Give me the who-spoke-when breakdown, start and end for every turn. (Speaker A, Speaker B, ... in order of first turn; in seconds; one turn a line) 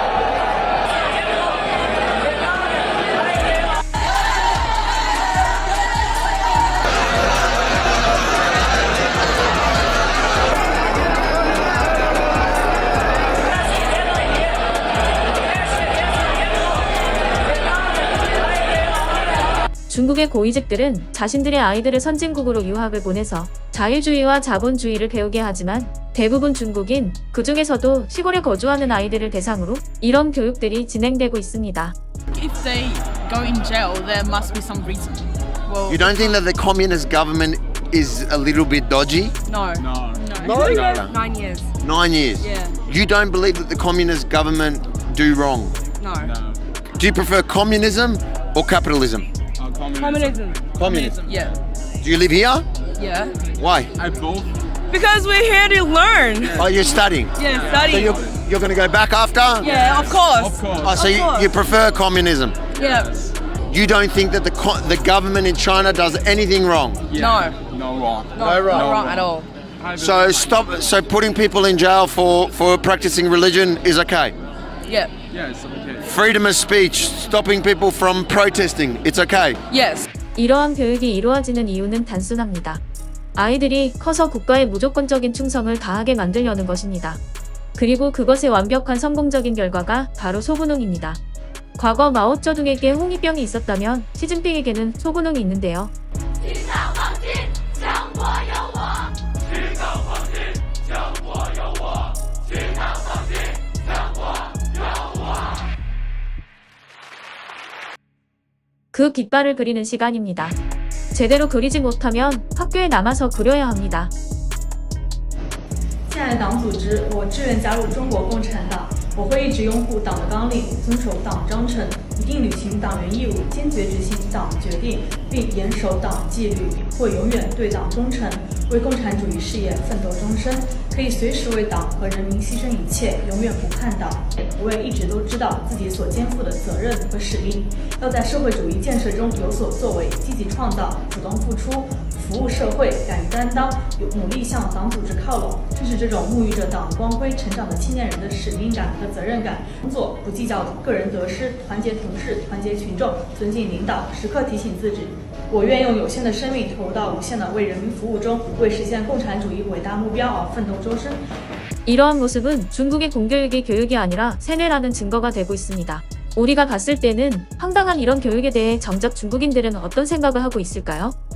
Speaker A: 19.9-31.9
Speaker B: 32.3-36.4
Speaker C: 35.9-39.3
Speaker B: 39.4-41.7
Speaker D: 39.7-40.9
Speaker C: 40.4-41.1
Speaker C: 41.8-45.8
Speaker B: 42.4-42.8
Speaker B: 46.0-46.3
Speaker D: 46.1-46.6
Speaker C: 47.0-49.3
Speaker D: 49.5-51.3
Speaker B: 49.9-51.6
Speaker C: 50.8-51.2
Speaker C: 52.0-52.7
Speaker B: 53.0-53.3
Speaker C: 53.6-53.9
Speaker D: 54.0-54.6
Speaker B: 54.9-56.6
Speaker D: 56.4-58.4
Speaker C: 56.5-59.7
Speaker B: 57.3-58.2
Speaker B: 59.6-61.6
Speaker D: 59.7-61.0
Speaker C: 60.8-62.6
Speaker B: 62.8-63.2
Speaker D: 62.8-63.3
Speaker C: 63.7-67.0
Speaker D: 67.1-70.6
Speaker B: 67.1-67.6
Speaker B: 68.3-69.5
Speaker C: 68.4-69.0
Speaker C: 70.0-74.3
Speaker B: 74.9-75.2
Speaker D: 75.3-76.1
Speaker C: 76.0-79.6
Speaker B: 79.7-80.1
Speaker A: 80.3-82.8
Speaker A: 83.3-87.2
Speaker A: 87.8-91.2
Speaker A: 91.8-95.9
Speaker A: 108.9-110.5
Speaker A: 111.1-114.1
Speaker E: 116.1-161.2
Speaker A: 161.8-171.1